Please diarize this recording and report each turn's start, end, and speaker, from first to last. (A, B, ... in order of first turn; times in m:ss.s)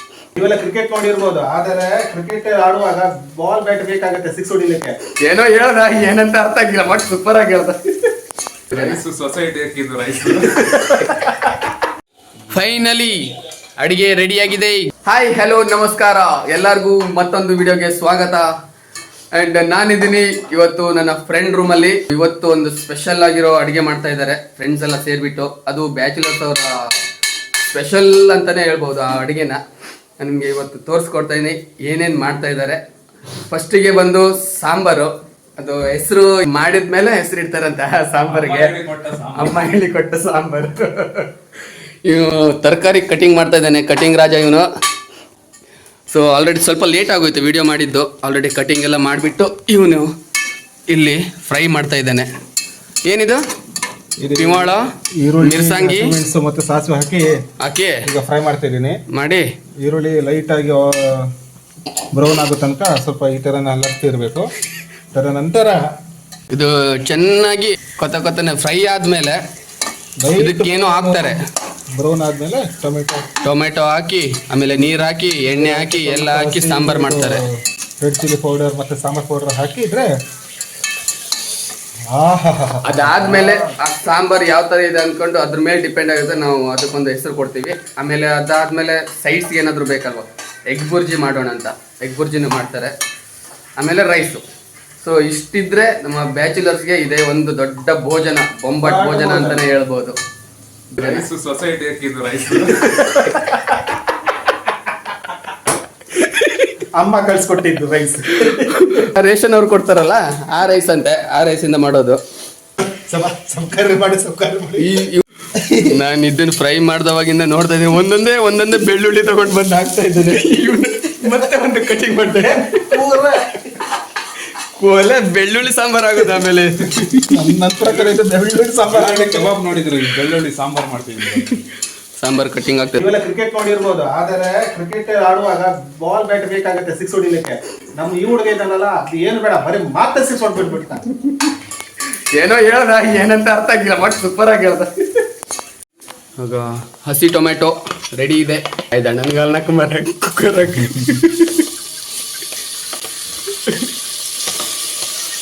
0:00.4-0:05.0 A
0:05.2-0:08.1 B
0:08.7-0:09.0 B
0:08.7-0:11.1 C
0:10.4-0:11.7 B
0:12.5-0:18.5 B
0:19.3-0:26.9 B
0:27.7-0:29.6 B
0:30.2-0:32.8 B
0:33.5-0:38.8 B
0:38.2-0:39.7 C
0:39.3-0:41.3 B
0:42.0-0:44.7 B
0:46.1-0:50.1 B
0:50.9-0:52.3 B
0:53.1-0:53.4 B
0:54.2-0:57.4 A
0:54.4-0:54.9 B
0:55.4-0:56.2 B
0:57.6-0:58.0 B
0:58.0-0:59.0 A
0:59.1-0:59.5 B
0:59.8-1:01.3 A
1:02.1-1:04.5 A
1:05.1-1:05.8 A
1:06.5-1:09.4 B
1:10.2-1:11.4 A
1:10.4-1:11.4 B
1:11.9-1:13.3 A
1:13.4-1:17.4 B
1:15.4-1:17.5 A
1:18.0-1:20.1 A
1:22.1-1:23.8 A
1:22.8-1:32.9 B
1:33.8-1:34.4 B
1:35.0-1:40.2 B
1:38.8-1:39.6 A
1:40.9-1:41.3 B
1:41.0-1:43.3 C
1:42.8-1:43.9 B
1:46.1-1:46.7 B
1:47.0-1:49.1 A
1:48.5-1:52.2 B
1:52.8-1:55.0 A
1:54.8-1:55.2 B
1:55.5-1:56.0 A
1:55.8-2:03.0 B
2:02.3-2:03.7 A
2:04.7-2:07.3 B
2:07.2-2:09.5 A
2:07.8-2:08.1 C
2:08.9-2:11.6 C
2:12.2-2:13.0 B
2:13.0-2:21.0 A
2:21.2-2:21.5 B
2:22.3-2:25.2 B
2:26.4-2:31.7 B